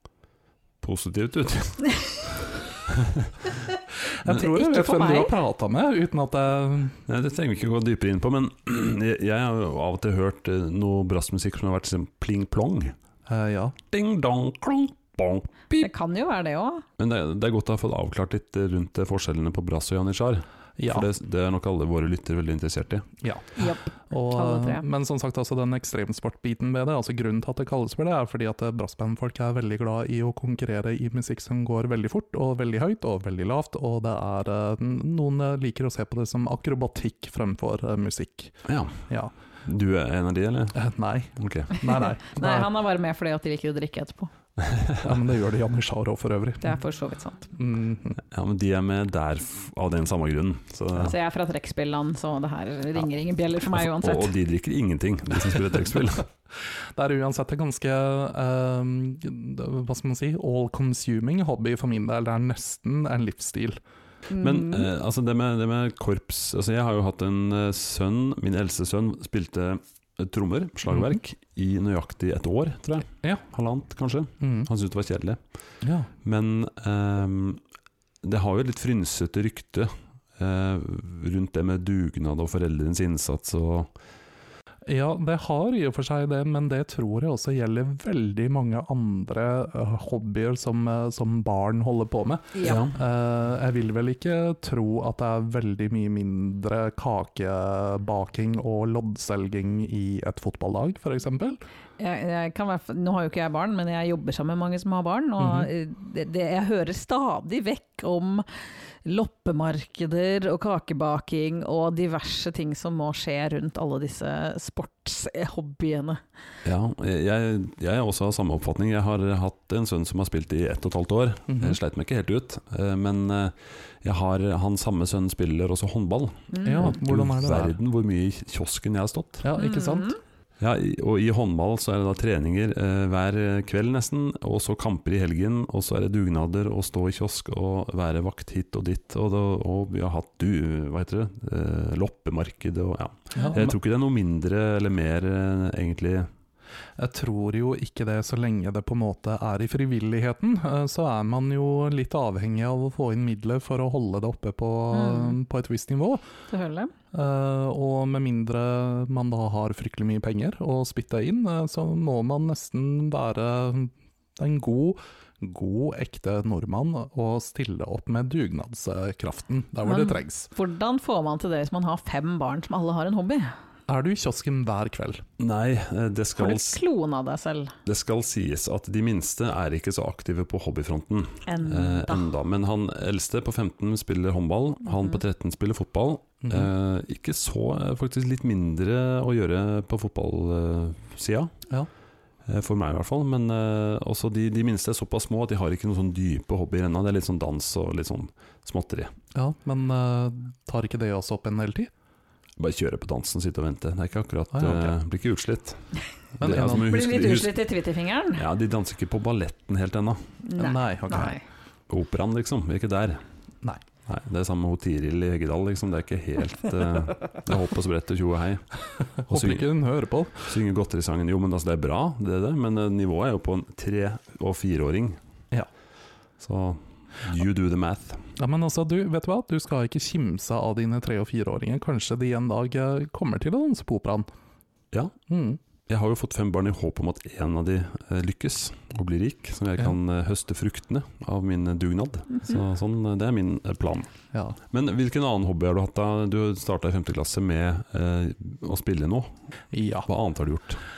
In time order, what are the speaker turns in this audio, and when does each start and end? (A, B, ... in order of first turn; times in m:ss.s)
0:00.8-0:03.4 A
0:04.2-0:07.0 B
0:04.3-0:05.4 C
0:07.1-0:13.0 A
0:13.3-0:13.8 B
0:13.9-0:15.9 A
0:15.7-0:16.8 C
0:17.0-0:23.1 A
0:20.8-0:21.1 B
0:23.2-0:38.6 B
0:23.6-0:24.8 C
0:38.7-0:39.0 A
0:39.1-0:39.3 B
0:39.6-0:40.8 A
0:40.8-0:42.7 B
0:41.4-0:41.8 A
0:41.9-0:44.3 C
0:44.7-0:45.0 A
0:45.0-0:46.7 B
0:46.6-0:47.5 C
0:47.6-0:48.2 B
0:48.3-0:51.2 A
0:51.0-0:54.3 C
0:53.8-0:56.3 A
0:57.0-1:03.8 B
1:04.3-1:04.9 C
1:04.4-1:15.4 A
1:10.9-1:11.2 B
1:14.4-1:14.7 B
1:15.8-1:16.1 B
1:16.2-1:17.6 A
1:18.2-1:23.9 A
1:24.9-1:41.6 B
1:32.6-1:32.8 C
1:32.6-1:33.0 A
1:42.0-1:48.5 C
1:45.4-1:45.7 B
1:49.0-1:56.2 C
1:56.6-2:09.4 A
2:01.5-2:01.8 B
2:06.5-2:07.0 C
2:06.6-2:07.8 B
2:09.4-2:10.1 B
2:09.6-2:10.2 C
2:10.6-2:26.3 A
2:23.4-2:23.8 B
2:27.0-2:36.2 B
2:34.9-2:35.4 C
2:36.5-2:36.9 C
2:37.1-2:50.5 B
2:49.8-2:53.5 C
2:53.9-2:55.2 B
2:55.4-2:56.8 A
2:56.4-2:57.7 C
2:57.9-3:11.5 A
3:01.5-3:02.3 C
3:06.4-3:06.7 B
3:12.5-3:19.1 A
3:19.4-3:21.9 B
3:22.6-3:25.8 A
3:24.5-3:25.0 B
3:26.4-3:27.6 A
3:26.4-3:26.9 B
3:26.8-3:28.4 C
3:28.4-3:30.2 A
3:30.4-3:31.4 C
3:30.6-3:31.4 B
3:31.9-3:33.2 A
3:34.1-3:38.7 A
3:39.3-3:39.8 A
3:39.3-3:40.5 B
3:40.4-3:45.2 A
3:46.4-3:48.2 A
3:48.4-3:54.3 B
3:55.3-3:55.6 B
3:55.9-4:04.1 A
4:04.3-4:04.6 B
4:04.7-4:09.3 A
4:09.7-4:10.1 B
4:10.1-4:10.8 A